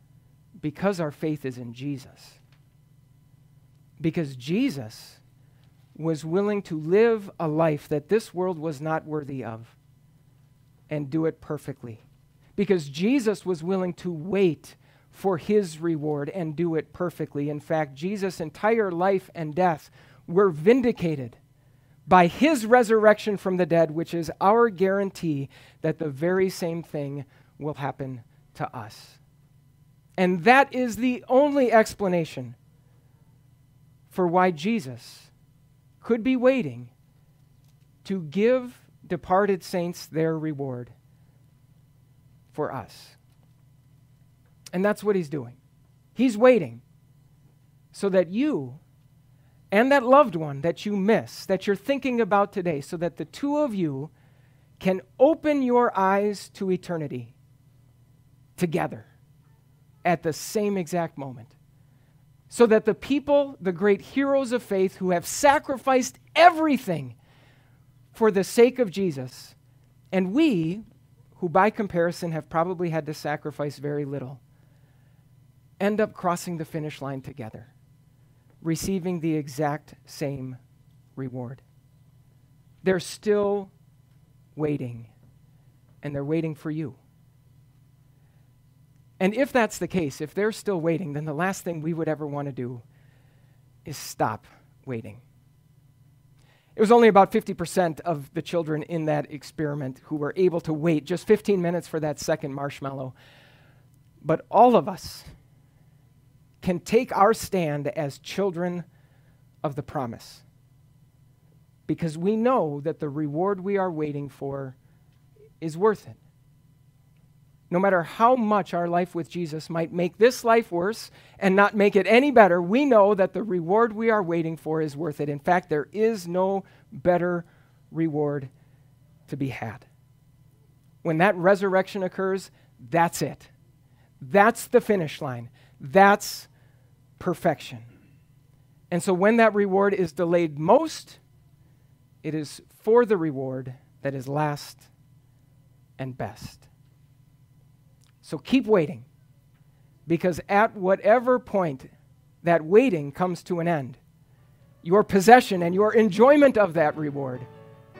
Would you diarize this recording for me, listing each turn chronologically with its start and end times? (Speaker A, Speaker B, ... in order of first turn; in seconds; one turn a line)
Speaker A: 0.6-2.4
Speaker A: 4.0-5.2
Speaker A: 6.0-9.7
Speaker A: 10.9-12.0
Speaker A: 12.6-21.4
Speaker A: 22.1-29.2
Speaker A: 30.2-32.5
Speaker A: 34.1-35.3
Speaker A: 36.0-36.9
Speaker A: 38.0-40.9
Speaker A: 42.5-43.2
Speaker A: 44.7-45.6
Speaker A: 46.1-46.8
Speaker A: 47.9-48.8
Speaker A: 49.7-54.1
Speaker A: 54.8-57.3
Speaker A: 58.6-59.1
Speaker A: 60.0-61.5
Speaker A: 62.5-67.2
Speaker A: 68.1-69.5
Speaker A: 70.1-70.8
Speaker A: 71.3-74.4
Speaker A: 75.8-77.7
Speaker A: 78.6-80.6
Speaker A: 81.2-81.6
Speaker A: 82.8-83.7
Speaker A: 84.5-85.1
Speaker A: 86.0-87.0
Speaker A: 89.2-92.8
Speaker A: 93.8-95.2
Speaker A: 96.8-103.1
Speaker A: 104.2-105.3
Speaker A: 106.6-108.8
Speaker A: 109.6-110.4
Speaker A: 111.9-114.8
Speaker A: 115.6-116.2
Speaker A: 117.7-128.5
Speaker A: 129.3-129.9
Speaker A: 131.0-133.5
Speaker A: 134.2-136.5
Speaker A: 137.2-137.8
Speaker A: 138.9-141.2
Speaker A: 142.2-144.9
Speaker A: 146.0-146.7
Speaker A: 148.2-149.1
Speaker A: 150.1-151.9
Speaker A: 152.4-154.0
Speaker A: 154.8-157.5